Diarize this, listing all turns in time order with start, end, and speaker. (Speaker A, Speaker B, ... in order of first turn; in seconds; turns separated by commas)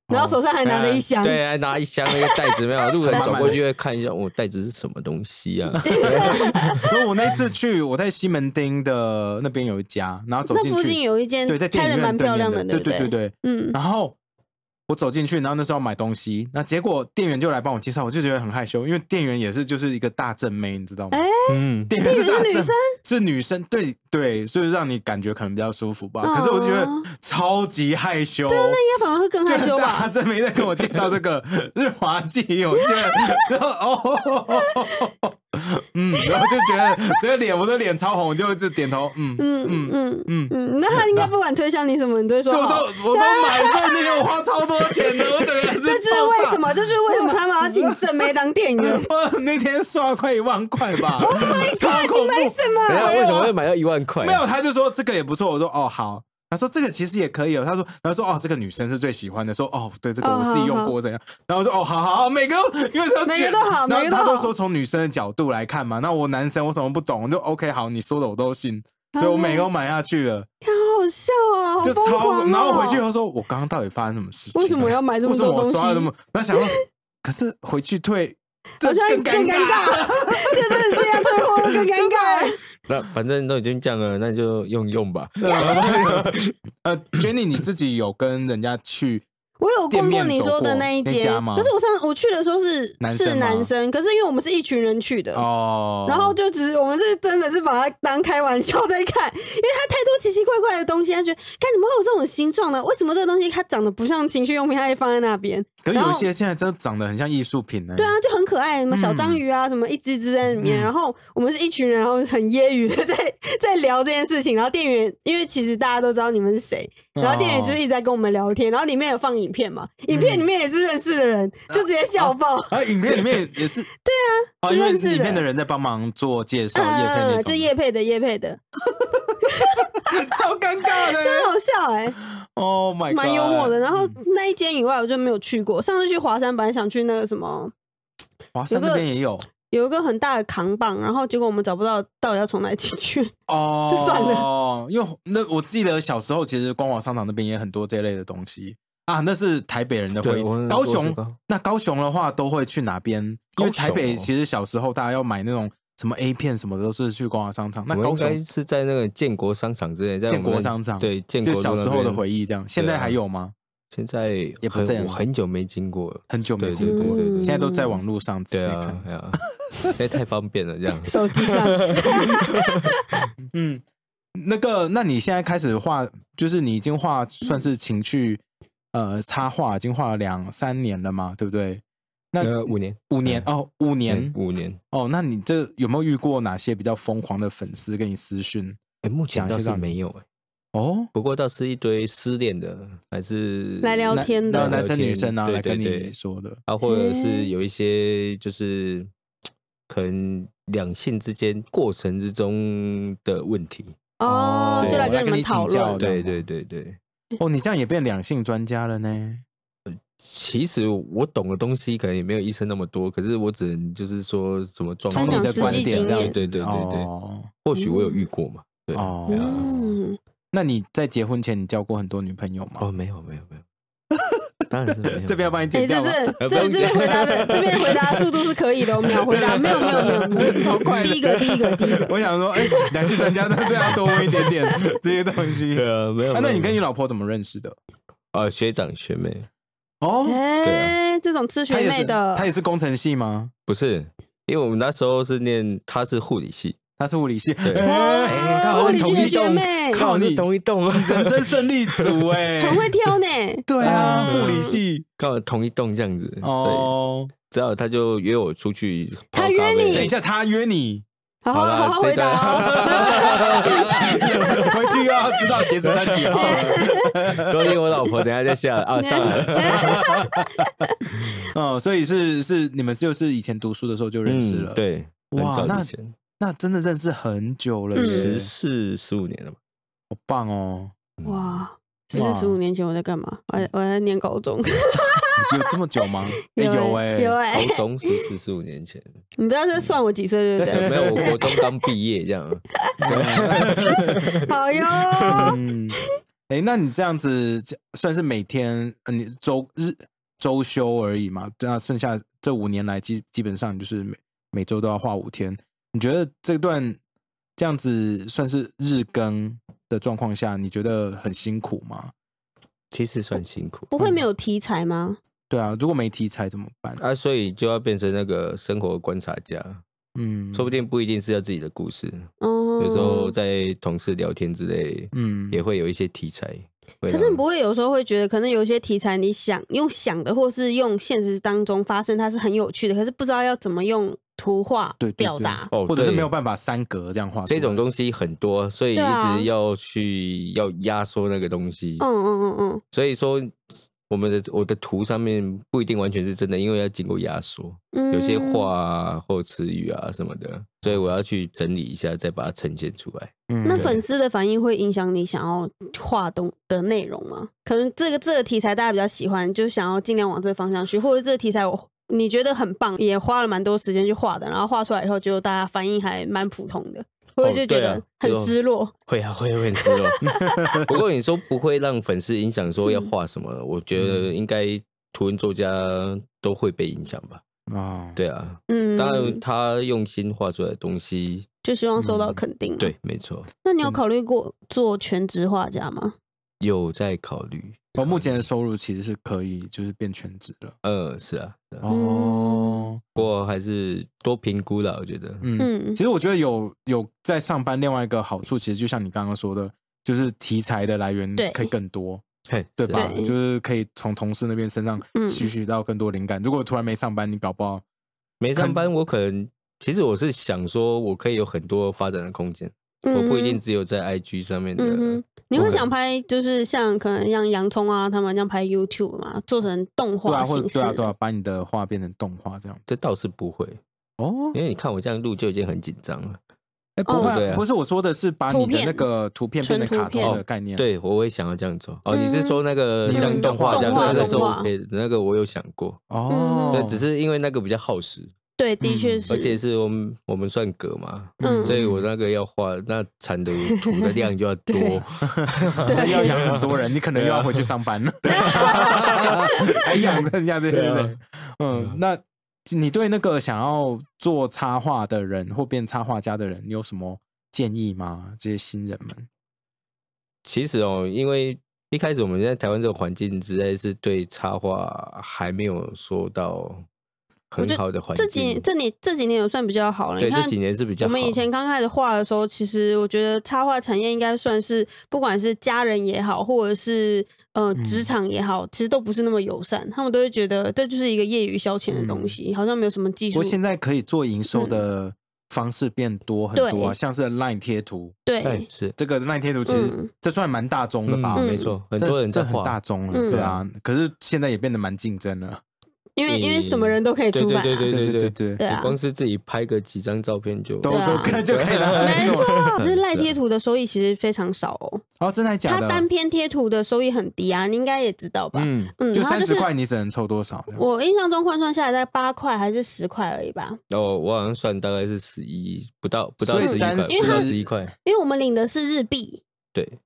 Speaker A: 0.1-0.4, Speaker B: 0.1-1.4, Speaker C: 0.6-6.8, Speaker B: 2.1-3.6, Speaker A: 3.0-3.6, Speaker B: 5.8-6.9, Speaker A: 5.9-14.2, Speaker B: 10.5-13.8, Speaker A: 14.9-28.8, Speaker B: 21.1-23.0, Speaker B: 26.2-27.1, Speaker B: 28.5-30.1, Speaker A: 29.4-41.3, Speaker B: 32.8-33.4, Speaker B: 34.6-35.0, Speaker B: 36.2-37.0, Speaker B: 39.4-44.2, Speaker A: 42.5-48.2, Speaker B: 45.0-49.1, Speaker A: 48.8-53.5, Speaker B: 51.2-53.3, Speaker C: 52.9-54.4, Speaker A: 54.2-70.5, Speaker B: 60.2-61.0, Speaker B: 63.2-64.5, Speaker B: 69.1-69.7, Speaker B: 70.6-73.0, Speaker A: 71.8-82.5, Speaker B: 74.5-76.8, Speaker B: 78.8-82.6, Speaker C: 82.9-86.5, Speaker A: 85.4-86.3, Speaker A: 86.8-89.3, Speaker B: 89.6-95.5, Speaker A: 89.9-91.7, Speaker A: 93.0-93.7, Speaker A: 95.3-96.4, Speaker B: 96.1-106.3, Speaker A: 105.8-108.2, Speaker B: 108.0-122.8, Speaker A: 108.9-109.4, Speaker A: 110.6-110.9, Speaker A: 117.2-117.8, Speaker A: 120.1-120.5, Speaker A: 121.7-123.9, Speaker B: 124.0-125.4, Speaker A: 124.6-127.7, Speaker B: 126.8-128.6, Speaker A: 128.9-131.5, Speaker B: 129.4-130.1, Speaker B: 131.0-132.2, Speaker A: 132.3-134.2, Speaker B: 133.1-137.7, Speaker A: 138.6-139.5, Speaker B: 138.7-139.1, Speaker B: 139.7-143.3, Speaker A: 143.5-158.4, Speaker B: 143.9-144.5, Speaker C: 150.2-151.4, Speaker C: 153.6-154.3, Speaker C: 157.9-162.2, Speaker A: 160.3-163.5, Speaker C: 162.8-163.2, Speaker C: 163.9-167.6, Speaker A: 164.6-165.2, Speaker A: 166.3-169.1, Speaker B: 166.8-168.0, Speaker C: 168.5-172.9, Speaker B: 171.1-172.9, Speaker A: 173.5-173.8, Speaker A: 174.4-178.4, Speaker A: 178.9-181.8, Speaker A: 182.3-184.3, Speaker C: 182.4-183.5, Speaker C: 184.1-184.8, Speaker A: 184.9-188.8, Speaker C: 189.0-190.2, Speaker A: 189.3-189.9, Speaker A: 190.7-191.1, Speaker C: 191.1-196.1, Speaker B: 193.8-194.8, Speaker A: 194.1-196.6, Speaker C: 196.7-199.1, Speaker B: 196.8-197.5, Speaker C: 199.9-204.0, Speaker B: 204.2-206.0, Speaker A: 204.2-206.4, Speaker C: 204.8-205.1, Speaker C: 206.0-207.0, Speaker A: 207.4-209.4, Speaker C: 209.9-217.1, Speaker A: 215.1-217.5, Speaker B: 215.2-216.4, Speaker C: 217.6-220.0, Speaker B: 217.7-218.3, Speaker A: 218.9-219.7, Speaker B: 219.3-220.2, Speaker A: 220.5-222.9, Speaker C: 222.8-223.7, Speaker A: 224.1-227.9, Speaker C: 224.7-225.7, Speaker B: 225.7-233.1, Speaker C: 226.4-228.2, Speaker C: 229.1-232.0, Speaker A: 229.3-231.2, Speaker A: 232.0-237.8, Speaker B: 233.8-234.8, Speaker C: 233.9-234.5, Speaker C: 235.7-236.8, Speaker C: 238.3-239.5, Speaker A: 240.0-240.4, Speaker B: 240.2-242.5, Speaker C: 240.6-241.0, Speaker A: 241.7-243.5, Speaker C: 243.7-246.8, Speaker A: 247.0-252.9, Speaker C: 247.6-252.2, Speaker B: 247.8-250.0, Speaker B: 252.6-254.8, Speaker A: 253.7-255.1, Speaker C: 253.8-254.7, Speaker C: 255.2-256.9, Speaker A: 256.4-257.3, Speaker C: 257.5-260.1, Speaker B: 259.3-260.1, Speaker A: 259.9-261.1, Speaker B: 261.4-265.6, Speaker C: 261.5-264.7, Speaker A: 262.7-267.8, Speaker C: 265.6-266.8, Speaker B: 266.3-267.1, Speaker C: 267.3-270.0, Speaker B: 269.0-270.9, Speaker A: 269.2-270.7, Speaker A: 271.5-274.8, Speaker C: 274.2-276.2, Speaker A: 275.3-278.5, Speaker B: 277.9-278.3, Speaker C: 278.0-279.6, Speaker A: 280.1-280.9, Speaker C: 281.2-281.6, Speaker B: 281.2-285.5, Speaker A: 282.1-282.6, Speaker A: 285.4-287.4, Speaker B: 286.5-288.1, Speaker C: 287.5-289.1, Speaker B: 289.4-291.6, Speaker C: 290.7-294.5, Speaker A: 290.7-291.4, Speaker A: 293.0-294.3, Speaker B: 293.5-295.6, Speaker C: 295.1-295.5, Speaker A: 295.3-296.0, Speaker A: 296.5-307.0, Speaker A: 307.6-312.1, Speaker C: 312.9-313.9, Speaker B: 313.9-315.2, Speaker A: 315.5-317.0, Speaker C: 317.0-319.8, Speaker A: 320.2-320.7, Speaker C: 320.5-327.4, Speaker B: 322.4-323.4, Speaker A: 325.1-325.6, Speaker B: 327.1-335.7, Speaker A: 335.0-337.8, Speaker C: 335.7-336.3, Speaker C: 337.5-342.1, Speaker B: 338.9-339.5, Speaker B: 342.0-342.8, Speaker C: 342.9-354.0, Speaker B: 347.9-348.7, Speaker A: 353.5-354.0, Speaker B: 353.6-368.9, Speaker C: 367.4-368.6, Speaker C: 369.1-370.2, Speaker B: 369.9-370.8, Speaker A: 370.2-370.9, Speaker C: 370.8-377.4, Speaker A: 374.0-374.3, Speaker A: 377.7-378.2, Speaker C: 378.2-381.5, Speaker B: 378.7-379.4, Speaker B: 381.6-382.9, Speaker A: 382.0-382.4, Speaker C: 382.8-383.5, Speaker B: 383.6-386.2, Speaker C: 386.6-388.4, Speaker A: 388.0-390.8, Speaker C: 390.8-391.9, Speaker A: 391.8-393.0, Speaker B: 391.9-392.8, Speaker C: 393.2-395.5, Speaker A: 395.4-402.2, Speaker B: 395.6-396.0, Speaker B: 401.4-401.7, Speaker C: 402.5-403.2, Speaker A: 402.8-407.8, Speaker B: 402.9-403.4, Speaker B: 405.1-405.5, Speaker C: 408.4-415.8, Speaker A: 408.6-408.8, Speaker B: 413.0-413.6, Speaker B: 414.8-421.1, Speaker A: 415.6-415.9, Speaker A: 420.3-422.8, Speaker C: 422.9-423.8, Speaker A: 424.2-424.6, Speaker C: 424.5-426.4, Speaker A: 427.0-430.9, Speaker B: 427.1-427.4, Speaker C: 427.1-427.6, Speaker B: 428.5-429.1, Speaker B: 429.6-430.4, Speaker C: 430.2-436.0, Speaker B: 432.1-434.7, Speaker A: 433.1-434.6, Speaker A: 436.1-437.0, Speaker B: 436.3-436.9, Speaker C: 436.7-438.3, Speaker B: 438.6-439.6, Speaker A: 438.8-439.4, Speaker C: 439.3-447.7, Speaker A: 441.4-442.1, Speaker B: 441.4-441.8, Speaker B: 443.7-444.1, Speaker B: 444.7-445.0, Speaker A: 445.2-459.3, Speaker B: 445.9-446.5, Speaker B: 448.3-449.8, Speaker C: 448.4-449.4, Speaker C: 450.0-451.2, Speaker C: 451.7-452.0, Speaker C: 460.4-466.8, Speaker C: 467.5-468.6, Speaker B: 467.6-483.6, Speaker C: 470.2-471.4, Speaker A: 477.8-478.1, Speaker A: 481.9-482.4, Speaker A: 483.3-488.2, Speaker B: 484.5-484.8, Speaker B: 486.6-487.0, Speaker B: 488.3-488.7, Speaker C: 488.4-488.9, Speaker A: 489.0-495.6, Speaker B: 489.7-490.1, Speaker C: 491.1-493.6, Speaker B: 491.4-491.7, Speaker B: 493.1-493.4, Speaker B: 496.2-497.9, Speaker C: 496.3-503.3, Speaker A: 497.9-498.6, Speaker B: 498.6-499.0, Speaker A: 500.8-502.9, Speaker B: 500.9-501.4, Speaker B: 501.9-505.0, Speaker A: 505.2-506.1, Speaker B: 505.7-509.7, Speaker A: 508.5-510.8, Speaker B: 510.7-513.8, Speaker C: 513.9-517.9, Speaker A: 516.4-517.7, Speaker B: 516.6-517.5, Speaker B: 518.0-519.4